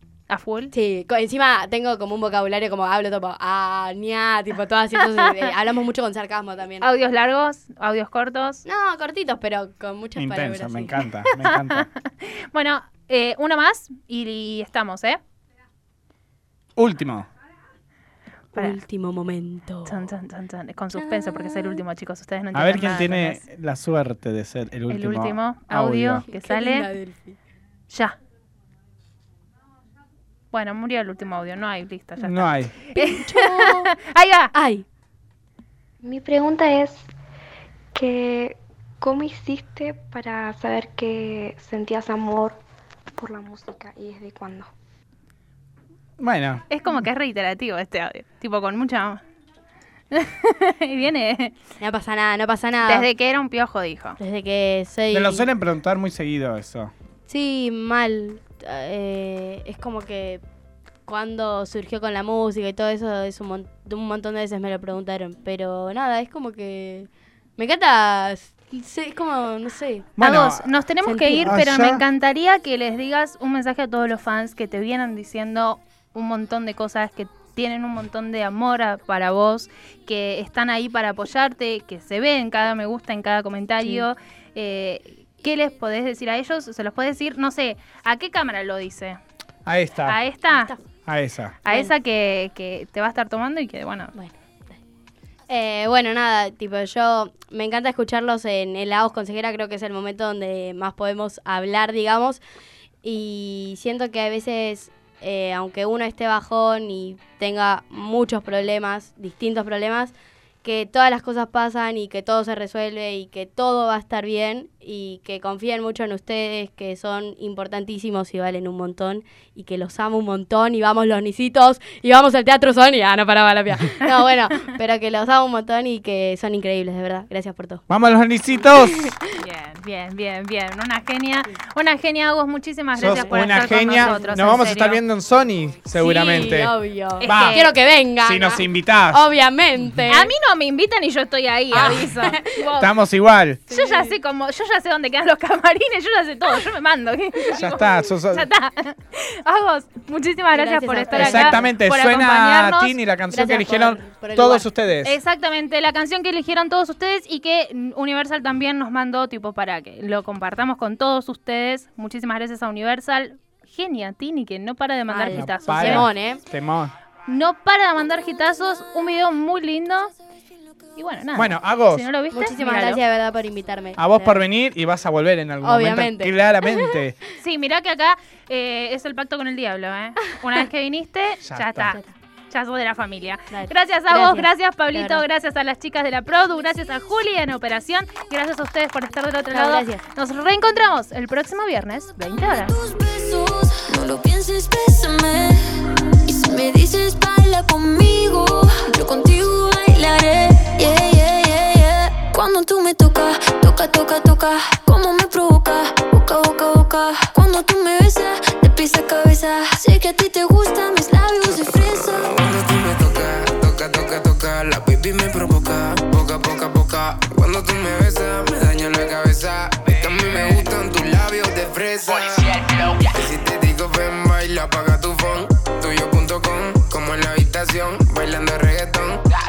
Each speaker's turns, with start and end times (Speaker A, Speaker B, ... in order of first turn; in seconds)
Speaker A: 0.3-0.7, 5.1-5.5, 6.8-8.6, 11.4-15.2, 19.9-23.4, 24.9-26.9, 27.9-28.2, 30.5-34.5, 46.7-49.2, 50.1-51.6, 52.9-54.2, 70.2-89.2, 90.1-90.7, 91.7-94.1, 129.4-135.0, 137.2-137.7, 140.1-142.9, 143.7-152.9, 155.0-166.1, 167.3-170.1, 171.0-173.0, 177.4-192.8
Speaker B: 0.7-6.9, 8.7-11.0, 18.6-20.0, 20.9-21.8, 26.3-27.4, 32.9-33.9, 34.5-34.9, 51.8-53.1, 54.2-55.5, 57.3-60.4, 61.1-70.1, 71.0-71.6, 90.5-90.8, 91.7-91.9, 94.1-94.8, 95.5-102.4, 103.0-127.8, 133.0-133.3, 133.9-134.3, 136.0-140.3, 141.7-142.6, 143.7-144.2, 150.5-151.7, 153.3-154.7, 165.1-166.4, 172.3-174.4, 175.6-176.9, 183.5-185.2, 189.5-190.0
Speaker C: 10.2-11.9, 16.8-17.3, 22.5-26.2, 32.2-32.7, 46.2-46.6, 55.1-56.9, 70.2-70.7, 71.4-72.0, 89.7-90.2, 91.1-91.6, 127.9-129.2, 133.0-137.7, 138.2-139.2, 142.8-143.6, 147.5-148.5, 151.1-155.2, 165.3-166.9, 171.3-172.1, 174.0-177.2, 181.4-182.0
Speaker D: 36.0-37.0, 38.0-42.6, 43.2-44.7
Speaker E: 192.2-212.3
Speaker F: 212.2-229.2